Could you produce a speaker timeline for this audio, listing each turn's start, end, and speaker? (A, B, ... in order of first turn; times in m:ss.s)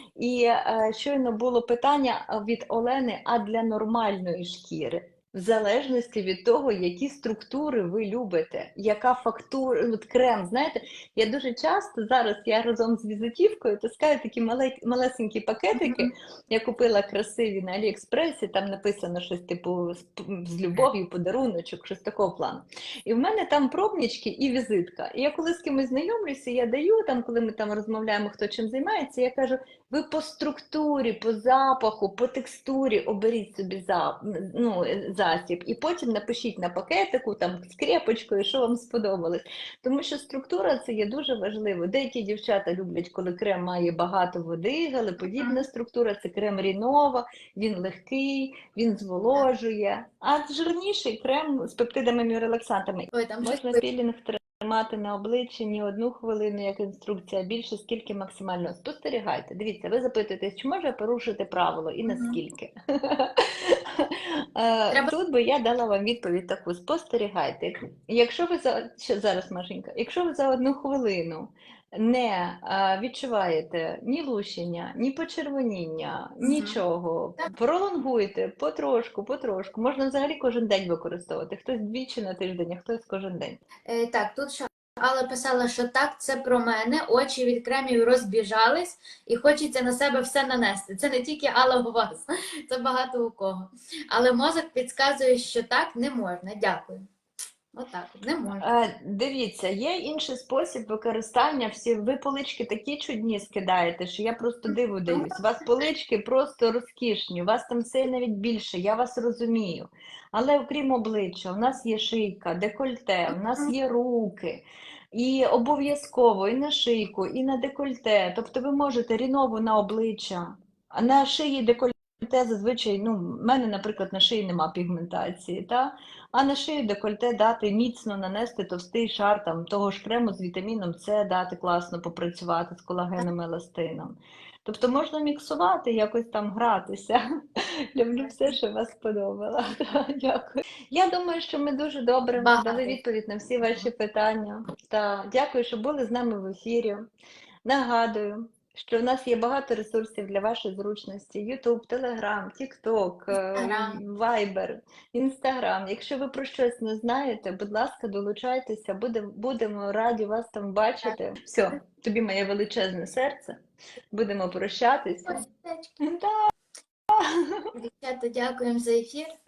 0:00.2-1:23.6 A
0:15.7-0:16.1 B
0:45.4-0:45.6 B
0:53.1-0:53.8 B
1:02.0-1:02.4 B
1:16.4-1:16.8 B
1:23.8-1:37.1 B
1:37.7-1:38.7 B
1:38.5-2:27.1 A
1:44.7-1:45.4 B
2:18.2-2:18.5 B
2:22.4-2:23.0 B
2:27.6-2:43.6 A
2:33.3-2:34.0 B
2:44.1-2:45.4 A
2:45.3-2:45.9 B
2:46.0-2:46.5 A
2:47.1-2:47.7 A
2:47.7-2:49.3 B